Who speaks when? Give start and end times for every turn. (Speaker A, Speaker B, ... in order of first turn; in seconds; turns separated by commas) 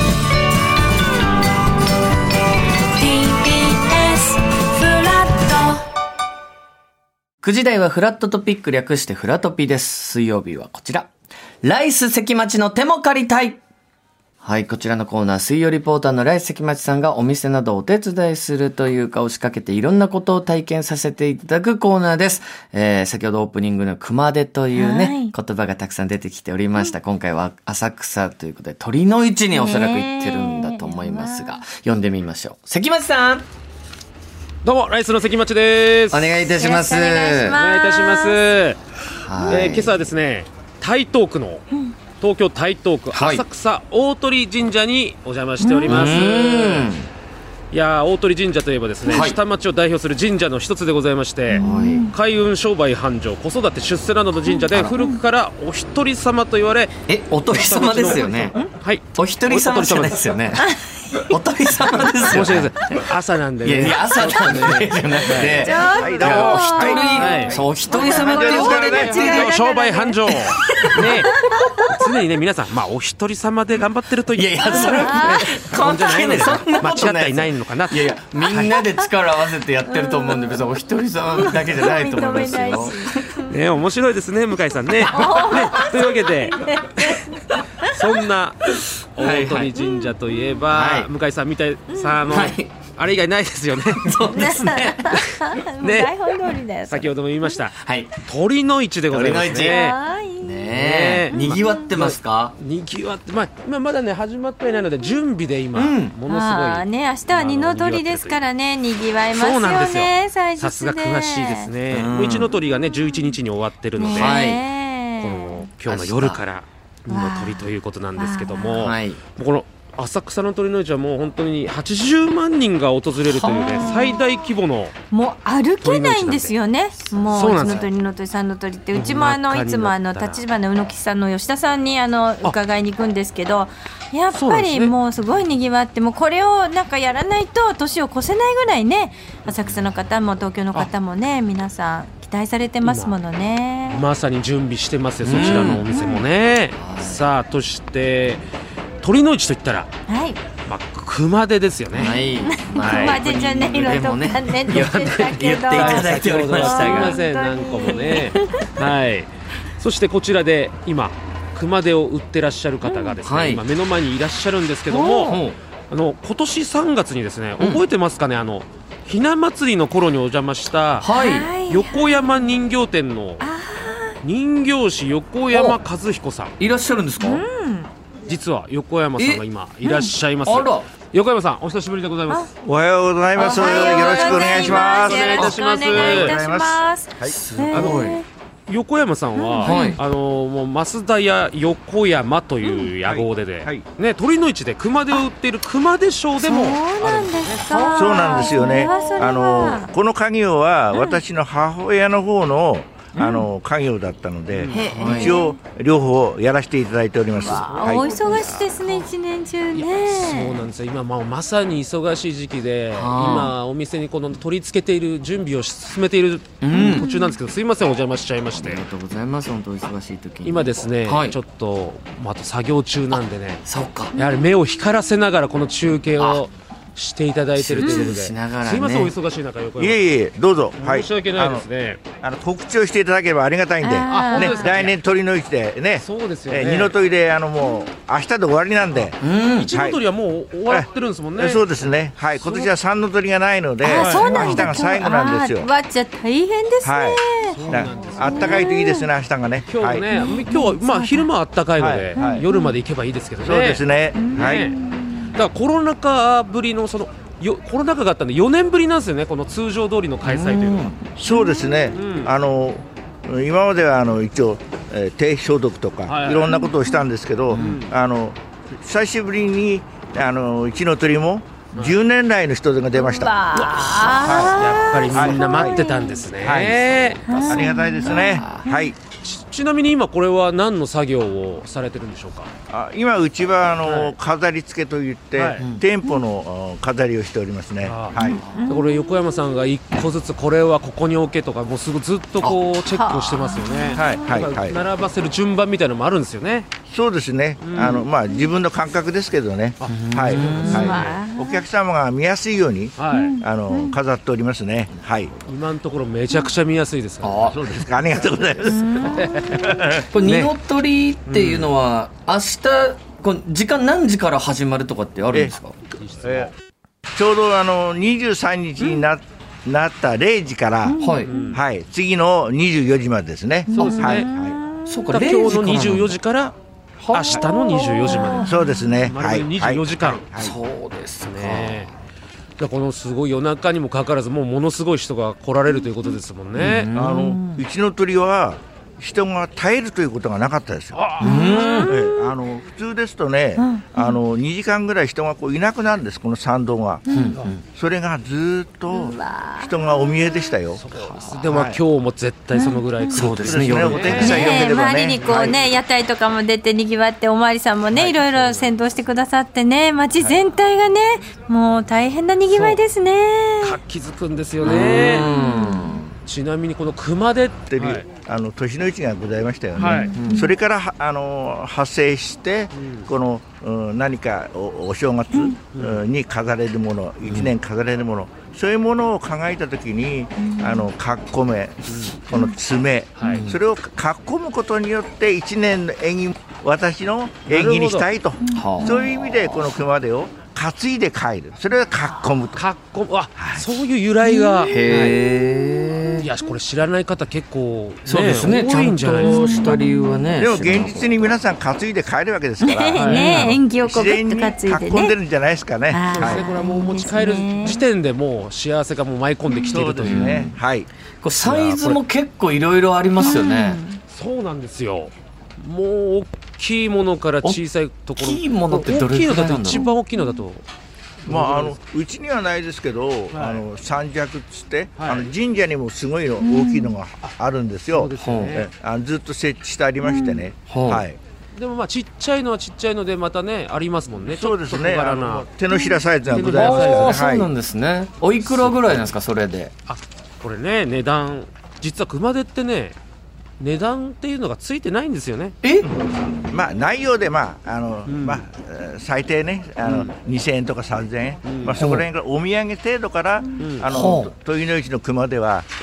Speaker A: 3.0-5.8, Speaker B: 7.4-11.1, Speaker B: 11.6-13.6, Speaker B: 14.4-33.4, Speaker A: 24.7-25.3, Speaker A: 29.5-31.6, Speaker C: 34.6-36.3, Speaker B: 36.1-37.6, Speaker A: 36.4-38.4, Speaker C: 37.5-38.8, Speaker B: 39.1-40.0, Speaker A: 39.4-39.7, Speaker C: 39.5-41.6, Speaker C: 42.2-46.9, Speaker B: 43.1-43.4, Speaker A: 45.6-46.0, Speaker B: 45.9-47.1, Speaker C: 47.7-56.9, Speaker B: 49.0-49.4, Speaker A: 51.5-52.1, Speaker B: 51.6-52.1, Speaker A: 54.4-55.2, Speaker B: 54.7-55.0, Speaker B: 57.1-58.6, Speaker C: 57.5-60.3, Speaker B: 59.1-60.6, Speaker A: 60.6-61.3, Speaker B: 61.3-63.0, Speaker C: 62.2-67.6, Speaker B: 63.6-69.5, Speaker A: 65.5-71.8, Speaker D: 65.8-69.1, Speaker C: 68.4-78.7, Speaker B: 70.3-71.2, Speaker B: 74.3-83.2, Speaker A: 74.8-75.4, Speaker A: 78.7-79.0, Speaker A: 79.8-80.7, Speaker A: 81.3-83.7, Speaker C: 83.5-87.1, Speaker A: 85.0-87.5, Speaker C: 87.9-94.1, Speaker B: 89.2-89.7, Speaker A: 89.8-90.6, Speaker B: 90.7-91.1, Speaker A: 91.9-92.4, Speaker B: 92.3-92.7, Speaker B: 93.9-95.0, Speaker A: 94.3-97.6, Speaker C: 95.3-96.1, Speaker C: 96.9-100.0, Speaker B: 97.8-98.2, Speaker B: 99.1-99.8, Speaker A: 99.5-100.6, Speaker B: 100.4-102.5, Speaker C: 100.7-108.4, Speaker A: 101.3-101.9, Speaker B: 105.7-106.2, Speaker A: 106.3-111.7, Speaker C: 109.3-114.5, Speaker B: 111.9-112.5, Speaker A: 112.6-113.4, Speaker A: 114.0-115.7, Speaker B: 114.0-114.6, Speaker C: 115.2-124.9, Speaker B: 115.8-116.4, Speaker A: 117.1-118.9, Speaker B: 118.7-119.2, Speaker A: 123.2-124.3, Speaker A: 125.1-144.0, Speaker C: 125.8-126.5, Speaker B: 127.1-127.9, Speaker C: 127.3-127.8, Speaker C: 128.9-130.4, Speaker C: 134.3-135.0, Speaker C: 142.8-143.1, Speaker C: 143.9-148.4, Speaker B: 145.2-145.8, Speaker A: 145.8-146.2, Speaker B: 146.8-147.3, Speaker C: 149.0-149.9, Speaker A: 150.1-150.4, Speaker C: 150.7-152.2, Speaker B: 151.9-157.2, Speaker A: 152.4-158.5, Speaker C: 152.8-153.2, Speaker C: 154.7-171.1, Speaker B: 157.8-158.2, Speaker A: 162.8-163.2, Speaker B: 163.2-163.6, Speaker B: 164.9-165.6, Speaker B: 171.0-171.5, Speaker A: 171.1-172.5, Speaker C: 171.7-173.4, Speaker A: 173.4-174.2, Speaker C: 174.2-176.5, Speaker B: 175.5-175.8, Speaker B: 176.6-177.4, Speaker A: 177.2-177.9, Speaker C: 178.2-182.5, Speaker B: 179.2-180.9, Speaker D: 182.6-187.4, Speaker A: 183.4-188.2, Speaker C: 183.4-186.4, Speaker B: 183.6-184.3, Speaker B: 187.3-188.2, Speaker C: 187.7-188.0, Speaker C: 188.7-199.2, Speaker A: 189.3-189.9, Speaker B: 189.6-190.0, Speaker A: 192.6-192.9, Speaker D: 193.0-193.8, Speaker A: 196.4-199.9, Speaker D: 197.9-208.6, Speaker A: 200.9-201.2, Speaker B: 203.1-203.5, Speaker C: 204.5-204.8, Speaker A: 204.7-205.6, Speaker B: 204.8-205.4, Speaker A: 207.3-210.6, Speaker C: 207.4-209.1, Speaker C: 209.7-218.8, Speaker B: 212.9-213.5, Speaker B: 216.6-217.1, Speaker A: 216.7-217.4, Speaker B: 218.5-221.4, Speaker C: 220.4-230.1, Speaker B: 223.1-224.1, Speaker A: 224.1-224.5, Speaker B: 226.2-226.4, Speaker B: 227.6-229.1, Speaker A: 227.8-228.1, Speaker D: 229.8-231.6, Speaker C: 230.8-232.0, Speaker D: 232.2-240.0, Speaker A: 233.8-234.7, Speaker C: 234.1-235.0, Speaker C: 235.9-236.9, Speaker A: 237.6-237.8, Speaker C: 238.9-241.7, Speaker B: 239.2-239.7, Speaker D: 240.7-245.7, Speaker C: 242.3-242.7, Speaker A: 243.8-247.6, Speaker C: 243.9-244.7, Speaker D: 246.8-250.1, Speaker C: 247.4-248.6, Speaker A: 248.2-249.1, Speaker C: 249.7-253.8, Speaker A: 250.1-251.3, Speaker D: 251.8-252.4, Speaker A: 252.2-252.8, Speaker D: 253.4-254.7, Speaker A: 254.1-255.4, Speaker C: 254.3-254.8, Speaker C: 255.3-260.9, Speaker B: 260.2-261.1, Speaker D: 261.1-273.4, Speaker A: 261.3-261.9, Speaker C: 261.9-262.3, Speaker C: 266.1-266.5, Speaker A: 266.5-267.0, Speaker B: 267.5-267.8, Speaker C: 267.5-267.9, Speaker A: 272.9-276.2, Speaker C: 273.5-277.8, Speaker D: 274.1-275.8, Speaker D: 276.4-278.9, Speaker A: 277.3-278.9, Speaker B: 278.0-278.6, Speaker C: 279.2-282.5, Speaker D: 282.7-288.4, Speaker C: 283.8-284.1, Speaker C: 285.3-285.6, Speaker C: 287.8-296.7, Speaker A: 288.1-289.5, Speaker B: 288.2-288.7, Speaker A: 292.9-294.4, Speaker D: 293.9-294.8, Speaker D: 296.9-305.3, Speaker C: 297.6-298.1, Speaker A: 298.2-298.5, Speaker C: 299.8-301.2, Speaker B: 299.9-300.9, Speaker A: 300.4-301.7, Speaker C: 303.0-303.4, Speaker A: 303.1-304.0, Speaker C: 305.5-307.5, Speaker B: 307.2-307.6, Speaker D: 307.4-310.1, Speaker A: 308.6-309.2, Speaker C: 309.1-309.6, Speaker B: 310.1-315.8, Speaker C: 310.1-310.5, Speaker C: 311.3-311.7, Speaker C: 315.9-316.5, Speaker D: 316.2-316.5, Speaker D: 317.1-320.9, Speaker A: 320.8-321.6, Speaker B: 321.0-321.3, Speaker C: 321.2-321.6, Speaker D: 321.5-324.6, Speaker A: 323.7-325.1, Speaker C: 323.7-324.3, Speaker B: 324.9-326.1, Speaker C: 325.1-326.6, Speaker B: 327.0-327.4, Speaker C: 327.1-328.5, Speaker A: 327.3-329.0, Speaker B: 328.1-328.4, Speaker D: 328.4-330.6, Speaker C: 329.1-330.2, Speaker B: 330.4-331.9, Speaker C: 331.2-331.9, Speaker C: 332.6-336.9, Speaker A: 335.7-336.1, Speaker B: 336.5-337.6, Speaker D: 336.9-341.0, Speaker C: 340.9-341.5, Speaker A: 341.2-342.4, Speaker B: 341.2-341.9, Speaker D: 341.8-347.0, Speaker A: 343.6-344.2, Speaker A: 347.1-347.4, Speaker B: 347.1-347.6, Speaker D: 347.7-350.8, Speaker A: 348.9-350.5, Speaker C: 350.8-354.6, Speaker B: 351.0-351.5, Speaker D: 351.4-351.8, Speaker A: 352.5-353.2, Speaker B: 353.1-354.5, Speaker D: 353.4-355.6, Speaker A: 354.0-363.8, Speaker C: 357.9-358.7, Speaker C: 362.5-362.8, Speaker C: 363.6-365.3, Speaker B: 364.6-366.1, Speaker A: 364.9-366.0, Speaker C: 366.2-368.0, Speaker D: 367.7-392.6, Speaker C: 369.8-370.1, Speaker A: 369.8-370.5, Speaker B: 370.2-370.5, Speaker C: 372.7-373.1, Speaker A: 375.3-375.6, Speaker C: 375.7-376.0, Speaker B: 377.2-377.5, Speaker A: 380.4-380.9, Speaker C: 381.9-382.2, Speaker C: 383.2-383.4, Speaker B: 383.3-383.6, Speaker C: 387.5-388.1, Speaker A: 388.4-389.1, Speaker B: 388.6-389.0, Speaker C: 392.5-395.2, Speaker D: 393.4-393.8, Speaker A: 394.2-395.1, Speaker B: 394.6-396.3, Speaker C: 396.2-399.5, Speaker B: 398.1-401.3, Speaker A: 399.1-400.2, Speaker D: 400.4-406.4, Speaker A: 402.6-405.1, Speaker C: 402.9-403.6, Speaker A: 405.9-407.8, Speaker C: 406.1-410.2, Speaker A: 409.5-409.9, Speaker D: 409.7-410.9, Speaker B: 410.0-410.6, Speaker B: 411.2-413.8, Speaker C: 411.4-412.0, Speaker A: 413.2-414.0, Speaker C: 414.1-420.6, Speaker B: 418.2-419.9, Speaker A: 419.7-420.4, Speaker D: 421.2-431.2, Speaker C: 421.3-421.8, Speaker C: 423.3-423.6, Speaker C: 425.0-425.3, Speaker A: 426.4-427.0, Speaker C: 427.9-428.7, Speaker B: 428.2-428.6, Speaker A: 430.0-430.5, Speaker B: 430.7-431.0, Speaker C: 431.5-435.5, Speaker D: 434.2-437.5, Speaker A: 435.7-436.4, Speaker C: 436.3-437.2, Speaker B: 436.5-439.7, Speaker C: 438.4-439.0, Speaker C: 439.9-443.0, Speaker C: 443.6-445.6, Speaker B: 445.6-445.9, Speaker D: 445.8-455.7, Speaker C: 448.0-448.4, Speaker C: 449.8-450.1, Speaker C: 451.4-451.8, Speaker B: 451.8-452.1, Speaker A: 453.4-453.6, Speaker C: 453.6-453.9, Speaker B: 453.9-454.3